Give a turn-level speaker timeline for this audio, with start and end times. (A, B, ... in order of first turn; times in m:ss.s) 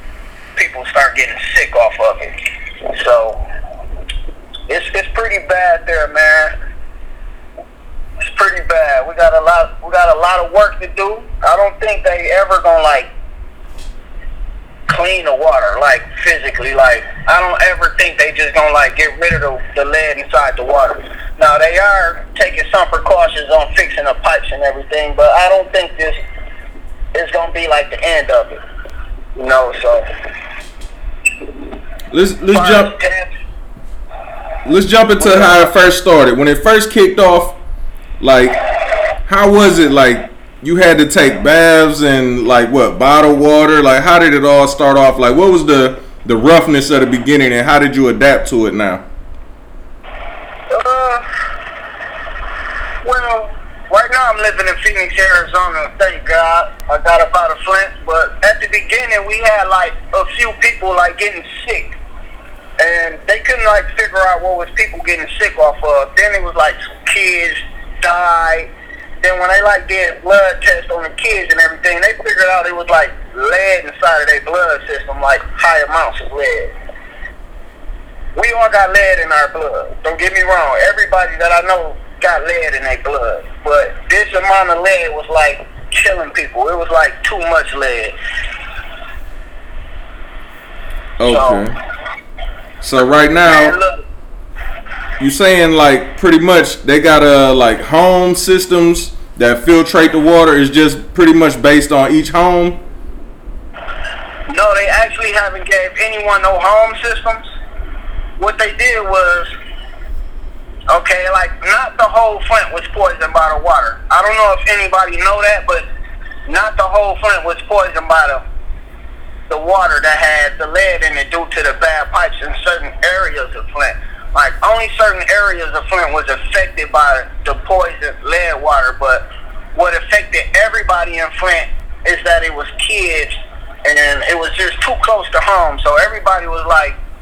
0:00.6-0:02.3 A
0:02.9-0:03.4 A
0:04.7-0:06.5 A
0:08.2-0:13.1 A
0:14.9-0:26.2 A
0:27.1-0:28.6 A
0:29.4-0:30.0 A
0:32.1-0:32.9 B
0:32.5-0:33.3 A
0:34.6-0:37.6 B
0:35.2-0:35.5 A
0:38.2-0:38.6 B
0:39.3-0:49.0 B
0:50.7-0:51.2 A
0:53.0-1:01.9 A
1:02.8-1:08.7 A
1:09.2-1:16.7 A
1:18.3-1:28.1 A
1:31.2-1:31.7 B
1:31.2-1:31.6 A
1:32.8-1:33.7 B
1:33.4-1:34.0 A
1:35.2-1:42.8 B
1:44.5-1:47.4 A
1:48.4-1:49.5 A
1:50.9-1:55.9 A
1:56.5-1:58.4 A
1:59.5-2:17.0 A